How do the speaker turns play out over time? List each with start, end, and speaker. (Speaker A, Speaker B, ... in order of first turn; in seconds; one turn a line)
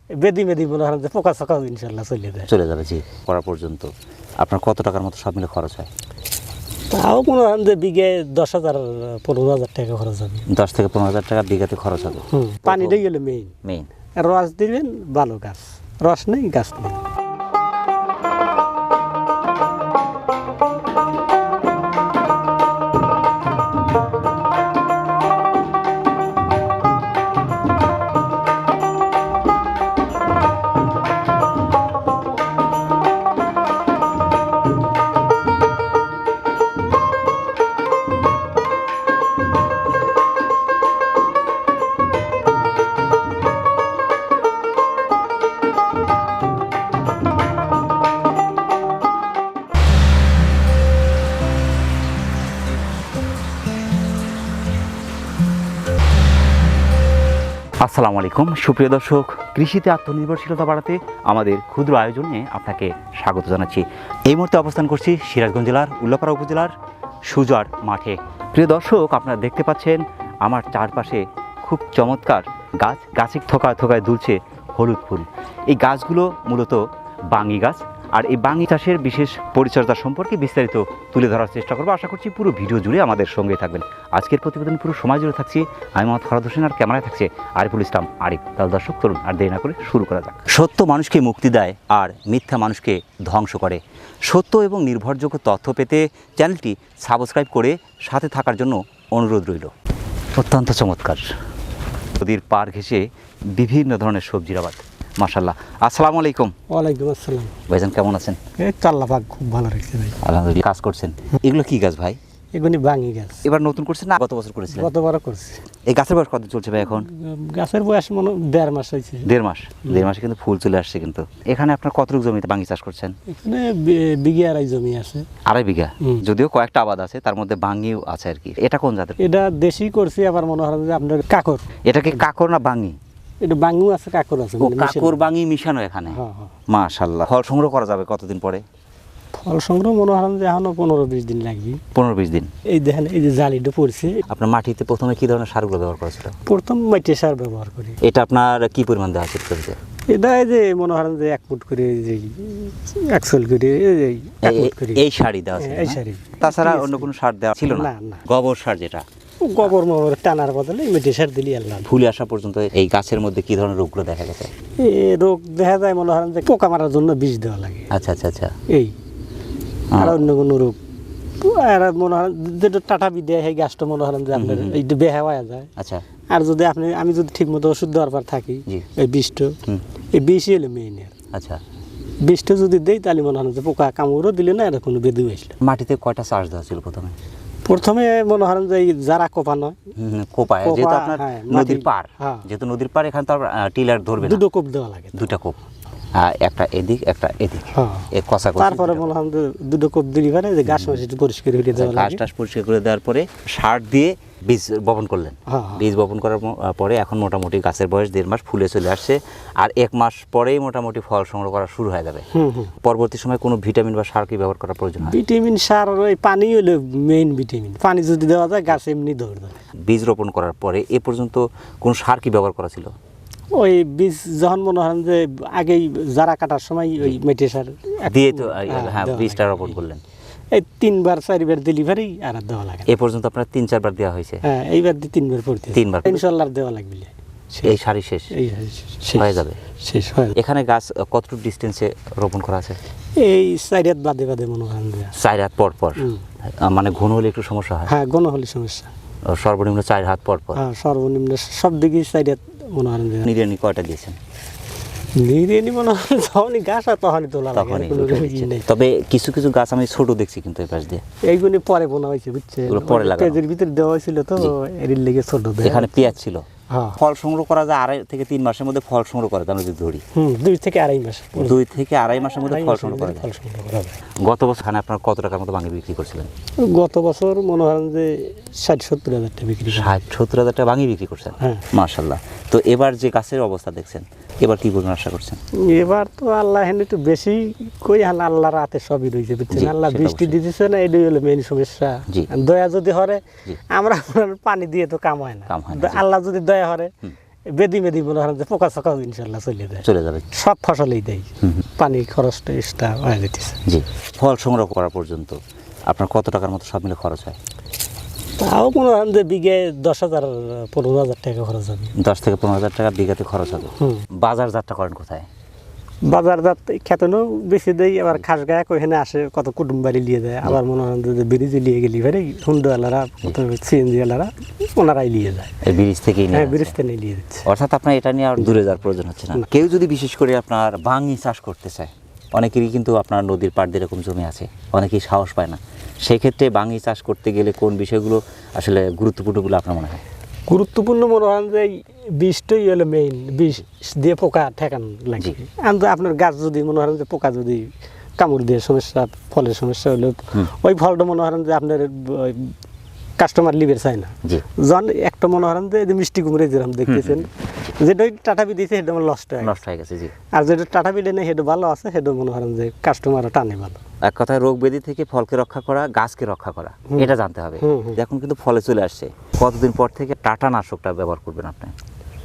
Speaker A: 0.1-2.5
Speaker B: 2.5-5.9
Speaker A: 6.9-10.5
Speaker B: 10.5-13.0
Speaker A: 12.3-13.6
Speaker B: 13.6-13.9
Speaker A: 14.2-17.0
Speaker B: 57.8-66.8
Speaker B: 67.2-99.7
Speaker B: 100.3-101.3
Speaker B: 102.2-106.5
Speaker A: 106.7-107.6
Speaker B: 107.7-108.4
Speaker A: 108.6-110.2
Speaker B: 110.2-112.2
Speaker A: 112.5-113.4
Speaker B: 113.4-114.9
Speaker A: 114.7-115.6
Speaker B: 115.9-117.1
Speaker A: 116.9-119.3
Speaker B: 119.2-123.2
Speaker A: 123.3-125.3
Speaker B: 125.5-129.2
Speaker A: 129.2-131.7
Speaker B: 131.9-133.0
Speaker A: 133.4-135.2
Speaker B: 134.6-138.6
Speaker A: 136.1-136.6
Speaker A: 139.4-141.8
Speaker B: 141.9-142.5
Speaker A: 142.7-144.2
Speaker B: 144.3-146.4
Speaker A: 146.4-148.0
Speaker B: 148.0-149.8
Speaker A: 150.1-155.0
Speaker B: 154.4-159.1
Speaker A: 155.6-157.1
Speaker A: 157.7-158.2
Speaker A: 159.4-161.9
Speaker B: 161.8-164.5
Speaker A: 164.8-167.9
Speaker B: 167.9-168.6
Speaker A: 168.7-168.9
Speaker B: 169.9-170.2
Speaker A: 169.9-170.8
Speaker A: 171.4-175.7
Speaker B: 174.3-174.8
Speaker B: 175.8-176.0
Speaker A: 176.3-179.6
Speaker A: 180.1-181.1
Speaker B: 181.3-181.6
Speaker A: 182.2-185.6
Speaker B: 185.6-187.2
Speaker A: 187.7-189.8
Speaker B: 190.0-194.4
Speaker A: 190.6-192.4
Speaker A: 194.2-195.4
Speaker B: 195.2-195.6
Speaker B: 196.2-199.1
Speaker A: 197.7-202.2
Speaker B: 200.7-201.0
Speaker B: 201.8-212.2
Speaker A: 205.5-205.9
Speaker A: 212.3-212.7
Speaker B: 212.8-215.2
Speaker A: 215.0-219.6
Speaker B: 219.9-222.9
Speaker A: 223.5-229.8
Speaker B: 228.0-230.0
Speaker A: 230.5-232.9
Speaker B: 232.9-234.4
Speaker A: 234.4-237.8
Speaker B: 235.7-236.2
Speaker B: 237.6-238.3
Speaker A: 238.3-240.4
Speaker B: 239.2-239.6
Speaker B: 240.3-242.8
Speaker A: 243.2-245.2
Speaker B: 245.2-247.9
Speaker A: 247.9-248.9
Speaker B: 249.3-250.6
Speaker A: 250.5-253.3
Speaker B: 253.3-254.2
Speaker A: 255.2-258.7
Speaker B: 257.5-261.0
Speaker A: 261.2-266.1
Speaker B: 262.7-263.4
Speaker B: 265.6-270.0
Speaker A: 266.7-267.0
Speaker A: 270.1-271.6
Speaker B: 271.4-273.3
Speaker A: 272.4-274.0
Speaker B: 274.2-276.3
Speaker A: 276.6-280.0
Speaker B: 279.7-285.4
Speaker A: 281.4-281.7
Speaker A: 285.6-296.9
Speaker B: 289.5-290.4
Speaker B: 295.5-296.0
Speaker A: 297.5-303.6
Speaker B: 299.8-300.2
Speaker B: 303.6-307.4
Speaker A: 308.4-311.9
Speaker B: 312.0-315.3
Speaker A: 313.8-314.1
Speaker A: 316.1-325.6
Speaker B: 325.6-326.8
Speaker A: 326.3-327.4
Speaker B: 327.4-340.0
Speaker A: 340.5-352.5
Speaker A: 353.2-359.6
Speaker B: 356.9-357.3
Speaker B: 359.4-360.1
Speaker A: 360.3-363.8
Speaker B: 364.0-371.7
Speaker A: 366.9-368.0